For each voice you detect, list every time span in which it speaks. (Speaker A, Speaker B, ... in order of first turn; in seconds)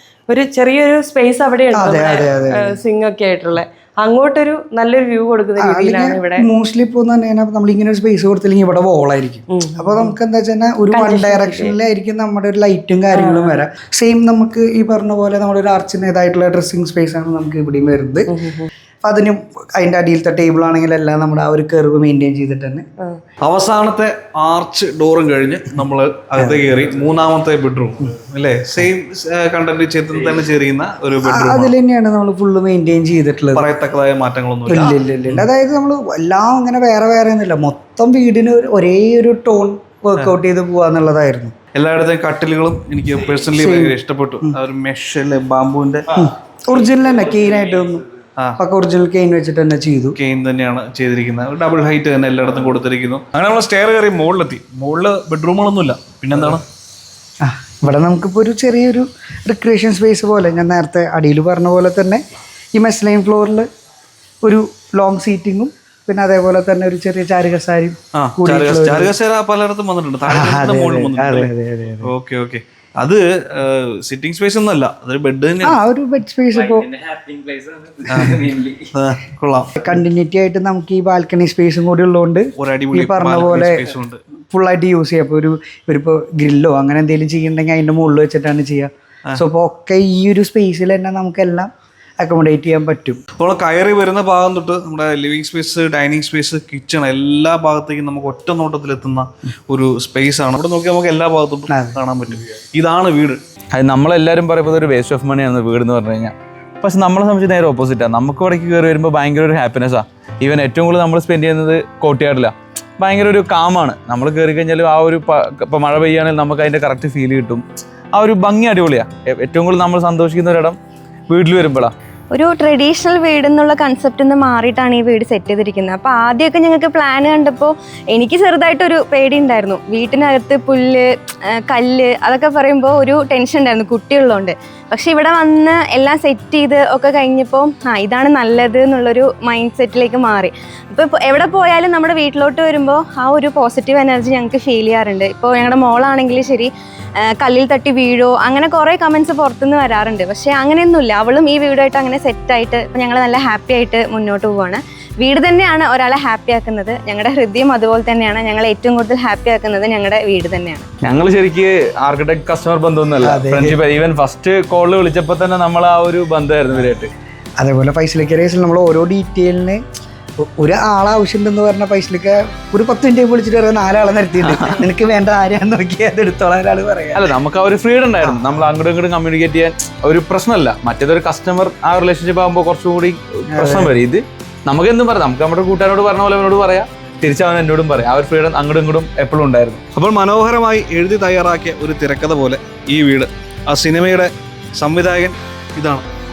Speaker A: 0.3-6.5, 9.5-10.2, 10.9-11.7, 13.2-13.6, 18.3-18.7
Speaker B: 1.7-2.8, 5.6-18.3, 19.0-22.9, 26.4-26.7, 31.2-33.7, 34.7-41.5, 43.5-44.5, 46.1-48.0, 48.6-50.2, 57.4-62.2, 62.8-63.7, 64.4-69.1, 70.3-72.1, 75.6-76.9, 79.8-83.9, 84.5-93.2, 101.7-102.0, 163.2-163.8, 167.6-169.8, 170.4-177.3, 178.2-178.6, 183.5-183.9
Speaker C: 23.4-31.7, 33.5-35.4, 41.8-46.3, 50.2-56.6, 68.1-71.5, 72.0-75.8, 78.1-79.8, 82.6-84.2, 93.4-103.4, 190.0-196.1
Speaker D: 77.0-78.9, 103.7-120.8, 121.3-121.9, 161.0-167.1, 177.2-189.8
Speaker E: 122.3-146.7, 147.2-160.9